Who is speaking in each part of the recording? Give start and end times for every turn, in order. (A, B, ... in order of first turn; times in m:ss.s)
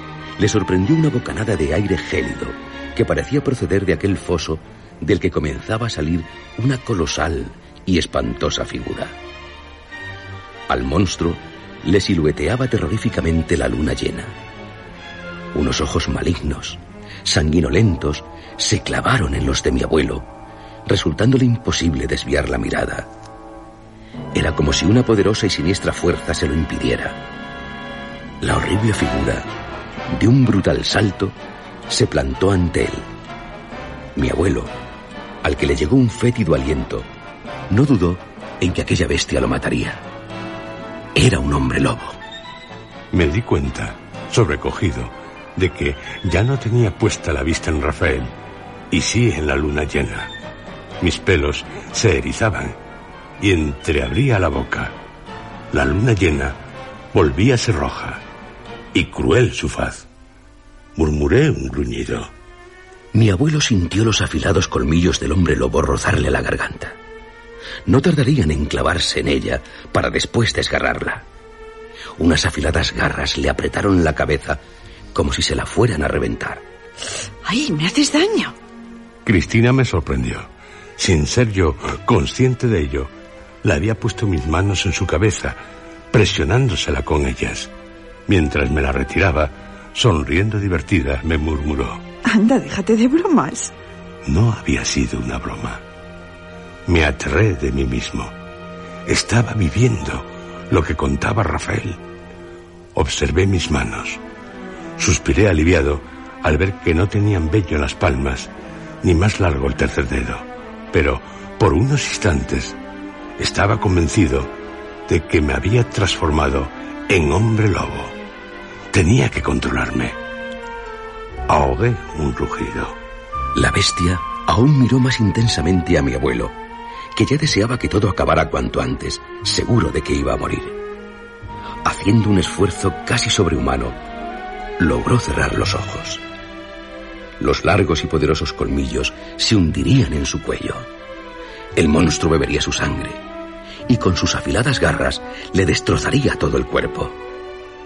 0:00.4-0:09.1 A
0:10.7-0:14.4 A
0:15.5-0:20.3 A
0:20.8-0:23.1 A
0:24.3-0:27.2 A
0:28.4-0:29.5 A
0:30.1-0:31.4 A
0:31.9-0:33.1 A
0:34.2-0:34.7 A
0:35.4-0:37.1 A
0:37.7-0:40.0 A
0:41.1-0:42.2 A
0:43.1-0:48.3 B
0:48.9-0:50.3 B
0:51.0-0:52.7 B
0:53.4-0:54.9 B
0:55.7-0:56.6 B
0:57.1-0:58.2 B
0:58.9-1:00.0 B
1:01.0-1:02.3 B
1:03.1-1:07.0 A
1:07.8-1:11.2 A
1:12.2-1:14.6 A
1:15.1-1:16.6 A
1:17.4-1:18.5 C
1:19.2-1:23.1 B
1:23.6-1:25.6 B
1:26.1-1:27.7 B
1:28.3-1:32.0 B
1:32.2-1:33.7 C
1:34.2-1:35.8 B
1:36.9-1:38.3 B
1:39.0-1:42.0 B
1:42.9-1:44.2 B
1:45.0-1:48.5 B
1:49.0-1:52.8 B
1:53.4-1:54.5 B
1:55.1-1:58.1 B
1:58.9-2:00.2 B
2:01.5-2:02.9 B
2:03.5-2:06.5 A
2:07.1-2:10.8 A
2:11.8-2:14.0 A
2:14.8-2:16.2 A
2:17.4-2:20.9 A
2:21.8-2:23.2 A
2:23.9-2:27.2 A